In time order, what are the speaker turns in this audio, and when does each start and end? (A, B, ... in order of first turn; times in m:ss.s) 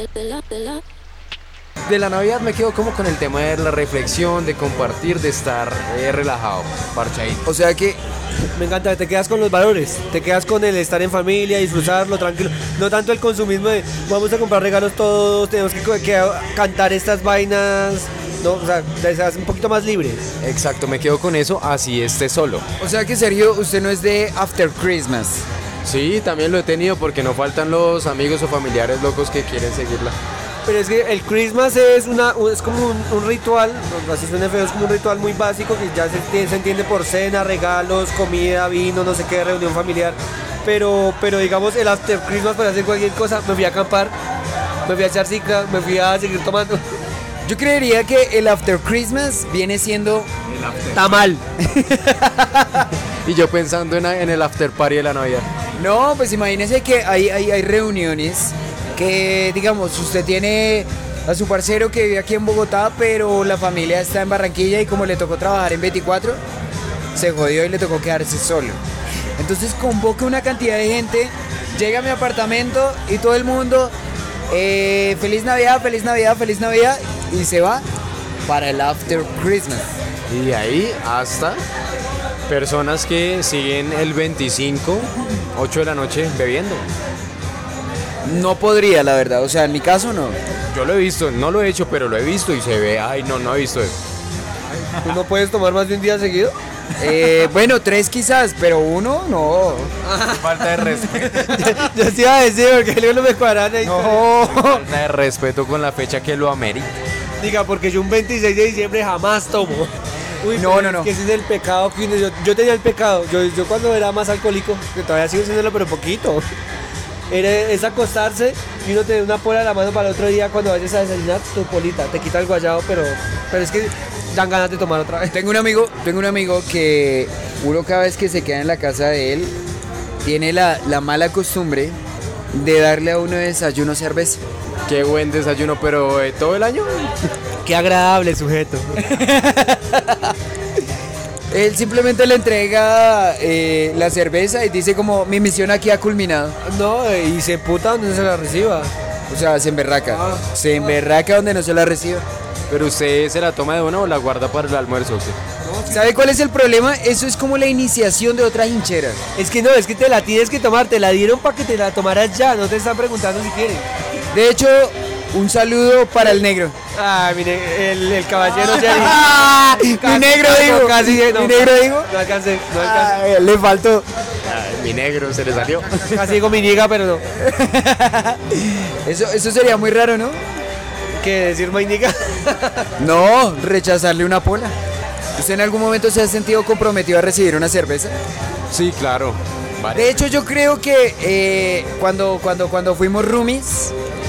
0:01.8-0:07.4 A
0:07.4-0:08.0 B
0:08.6-0:20.3 C
0:20.4-0:22.6 A
0:22.8-0:25.4 B
0:25.8-0:30.1 A
0:30.6-0:44.1 C
0:44.8-0:47.0 C
0:47.4-0:50.3 B
0:50.5-0:51.1 A
0:50.9-0:51.4 C
0:51.6-0:52.9 B
0:53.2-0:55.4 A
0:55.8-1:06.4 B
1:07.1-1:08.8 B
1:09.4-1:13.9 B
1:14.5-1:17.8 B
1:18.5-1:19.9 B
1:20.3-1:21.6 A
1:22.5-1:26.9 A
1:28.2-1:30.4 B
1:30.7-1:34.0 A
1:34.8-1:36.6 C
1:37.0-1:39.9 B
1:40.0-1:44.4 C
1:40.3-1:41.8 A
1:43.8-1:44.8 B
1:44.6-1:46.9 A
1:47.4-1:56.5 C
1:50.5-1:51.1 B
1:57.3-2:05.4 C
2:05.3-2:09.5 B
2:10.2-2:12.0 B
2:12.5-2:14.4 B
2:14.8-2:17.1 A
2:17.6-2:19.2 C
2:19.0-2:20.4 B
2:21.5-2:26.6 B
2:26.6-2:28.9 C
2:29.3-2:32.2 B
2:30.1-2:30.9 C
2:32.7-2:35.4 A
2:35.6-2:36.2 C
2:35.9-2:39.2 B
2:39.4-2:43.9 C
2:44.3-2:46.8 B
2:46.9-2:49.3 C
2:48.5-2:52.1 B
2:49.8-2:53.2 C
2:52.7-2:54.1 B
2:54.4-2:56.4 A
2:56.0-2:57.2 C
2:57.4-3:00.4 B
3:01.2-3:02.9 C
3:03.0-3:04.7 B
3:05.4-3:08.1 B
3:08.7-3:10.3 A
3:09.9-3:13.9 B